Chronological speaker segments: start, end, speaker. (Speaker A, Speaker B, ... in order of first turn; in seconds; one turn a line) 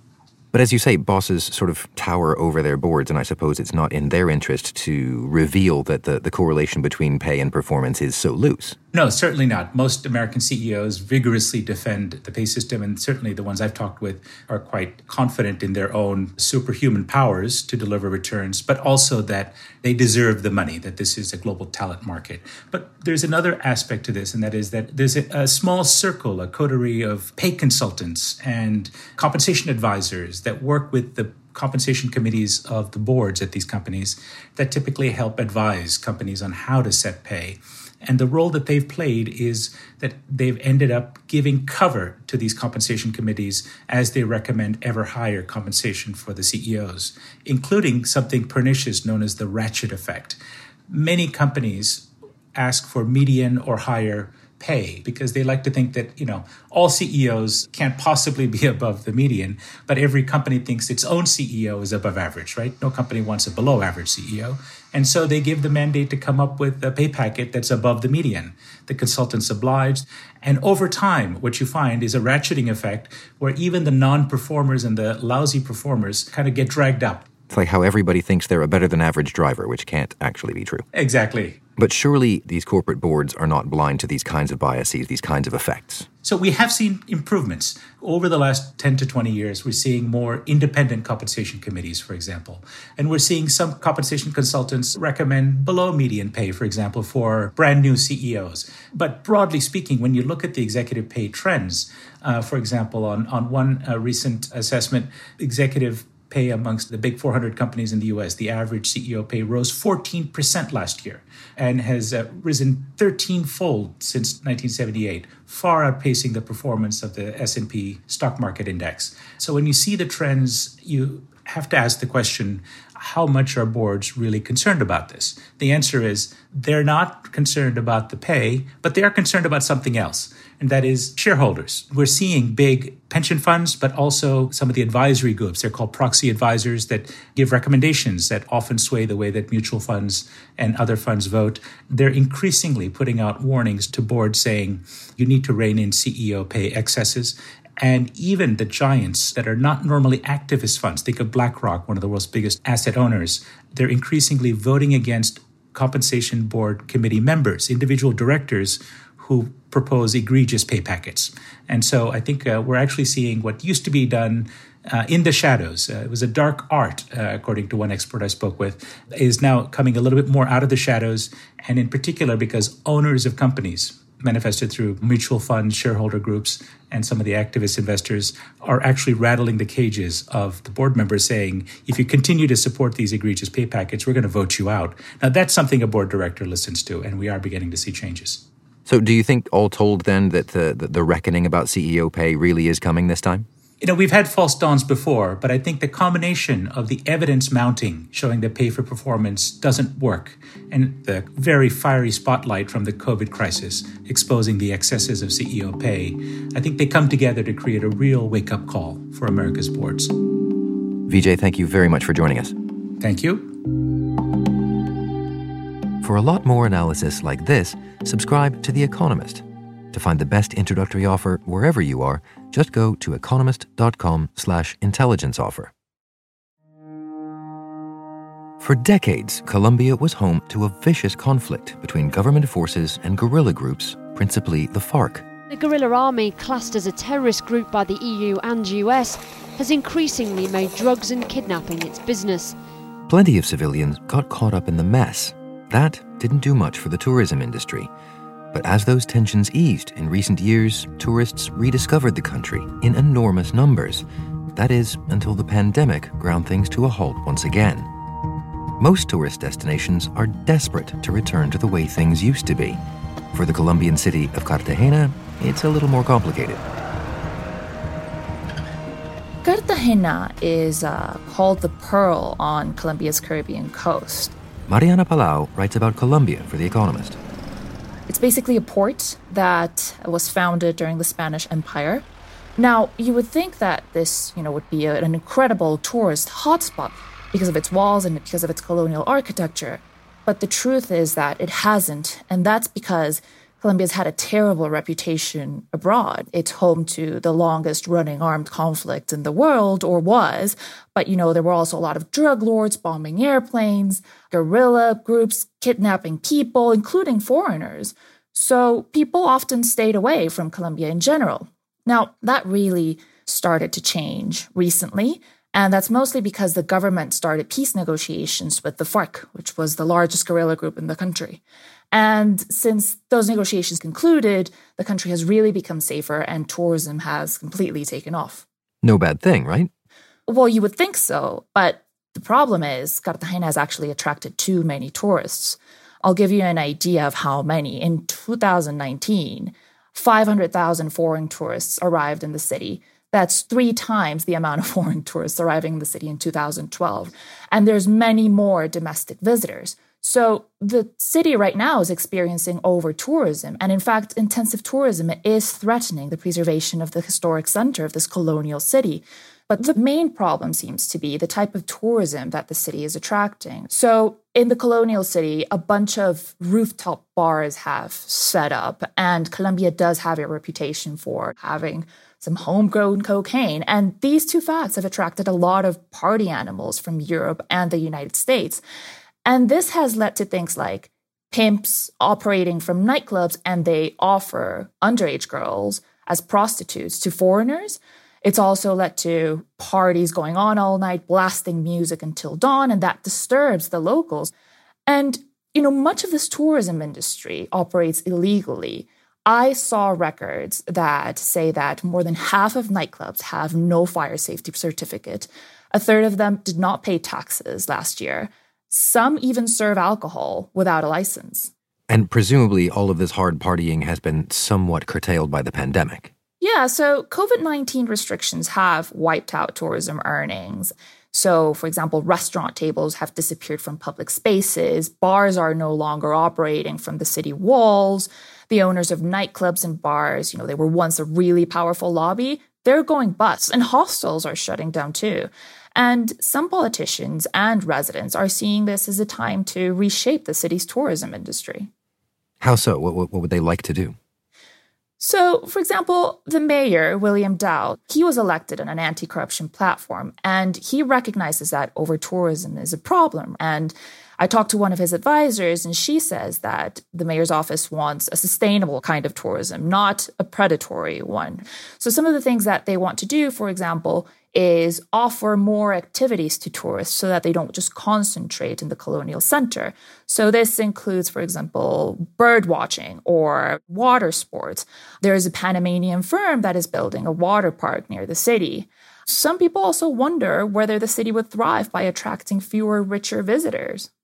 Speaker A: 0.5-8.8
Speaker B: 8.9-77.3
Speaker A: 77.5-80.8
Speaker B: 80.9-81.6
Speaker A: 81.8-86.1
Speaker B: 86.2-188.4
Speaker A: 188.9-193.5
Speaker B: 193.8-210.2
Speaker A: 211.1-212.5
Speaker B: 213.0-213.6
Speaker A: 216.0-225.7
Speaker A: 228.6-235.3
Speaker C: 235.5-242.6
Speaker A: 243.1-247.9
Speaker A: 248.5-257.9
Speaker A: 258.8-262.8
Speaker A: 263.3-266.6
Speaker D: 269.4-274.3
Speaker A: 274.7-277.2
Speaker D: 278.1-282.1
Speaker D: 282.6-321.4
Speaker D: 321.9-328.4
Speaker A: 328.8-329.7
Speaker D: 330.3-378.6
Speaker D: 379.2-394.3
Speaker D: 394.9-411.5
Speaker A: 411.9-416.1
Speaker D: 416.4-441.7
Speaker A: 442.4-443.9
Speaker D: 445.0-483.9